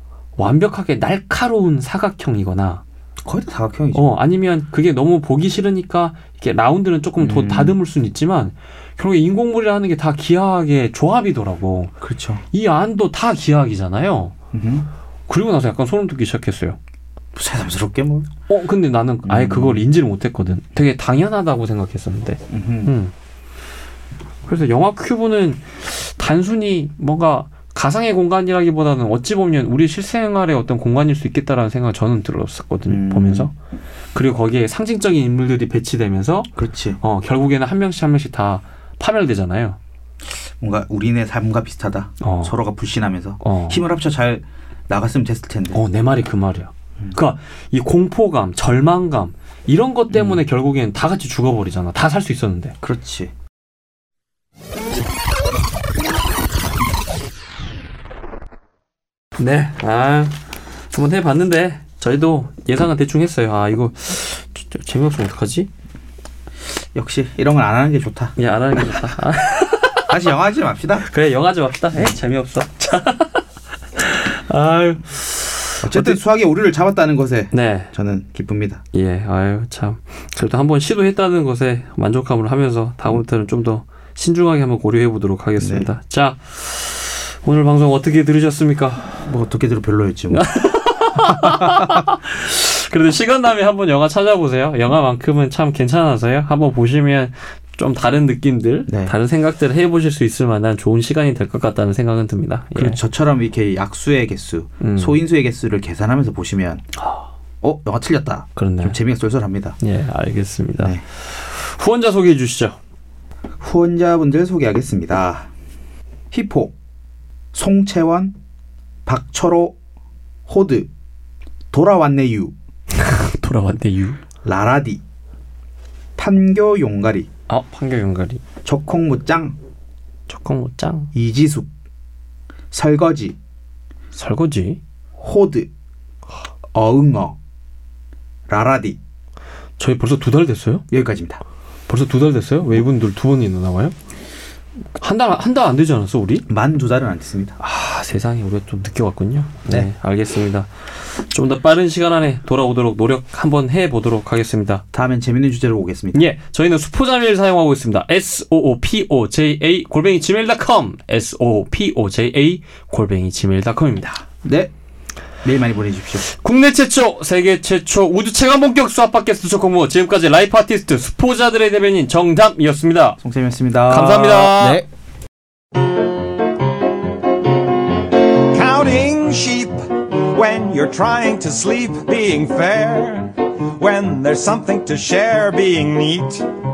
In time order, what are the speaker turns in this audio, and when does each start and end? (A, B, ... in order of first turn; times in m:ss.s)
0:00.4-0:02.8 A
0:03.2-0:04.0 B
0:03.9-0:11.9 A
0:07.2-0:07.8 B
0:12.0-0:12.4 B
0:12.5-0:14.4 A
0:14.5-0:14.9 B
0:15.3-0:16.8 A
0:17.4-0:18.3 B
0:18.5-0:23.1 A
0:19.2-0:19.8 B
0:22.5-0:23.0 B
0:24.5-0:33.5 A
0:32.9-0:33.5 B
0:34.1-0:39.8 A
0:36.6-0:37.0 B
0:40.6-0:45.8 B
0:42.2-0:42.5 A
0:43.4-0:43.8 A
0:45.7-0:52.8 A
0:50.1-0:50.4 B
0:52.8-0:53.3 B
0:59.4-1:00.4 A
1:00.9-1:05.7 A
1:06.9-1:08.4 B
1:08.4-1:10.1 A
1:10.1-1:11.1 B
1:11.0-1:13.4 A
1:14.0-1:16.2 A
1:15.8-1:18.8 B
1:17.5-1:17.9 A
1:18.9-1:29.2 A
1:25.6-1:25.9 B
1:29.1-1:30.5 B
1:30.3-1:43.0 A
1:31.2-1:32.1 B
1:38.9-1:39.1 B
1:42.8-1:46.8 B
1:44.8-1:45.2 A
1:47.0-1:47.3 A
1:47.6-1:49.8 B
1:48.6-1:49.0 A
1:49.8-1:52.8 A
1:50.8-1:51.0 B
1:53.6-1:55.5 B
1:56.3-1:56.7 B
1:57.5-1:58.3 B
1:59.1-1:59.8 B
2:00.5-2:00.9 B
2:01.7-2:02.5 B
2:02.9-2:04.2 A
2:04.4-2:05.0 B
2:06.2-2:07.3 B
2:07.5-2:08.4 A
2:08.6-2:09.6 B
2:10.3-2:11.1 A
2:11.1-2:11.7 B
2:12.7-2:13.4 B
2:14.1-2:14.8 A
2:15.2-2:15.7 B
2:16.7-2:17.4 B
2:18.5-2:19.0 B
2:19.8-2:20.8 A
2:20.9-2:21.4 B
2:21.9-2:24.0 A
2:25.0-2:26.5 A
2:26.5-2:27.6 B
2:27.6-2:34.8 A
2:34.9-2:36.2 B
2:36.1-2:44.2 A
2:44.4-2:44.7 B
2:45.4-2:46.3 B
2:46.2-2:53.2 A
2:53.2-2:54.9 B
2:53.9-2:54.8 A
2:58.4-3:06.5 C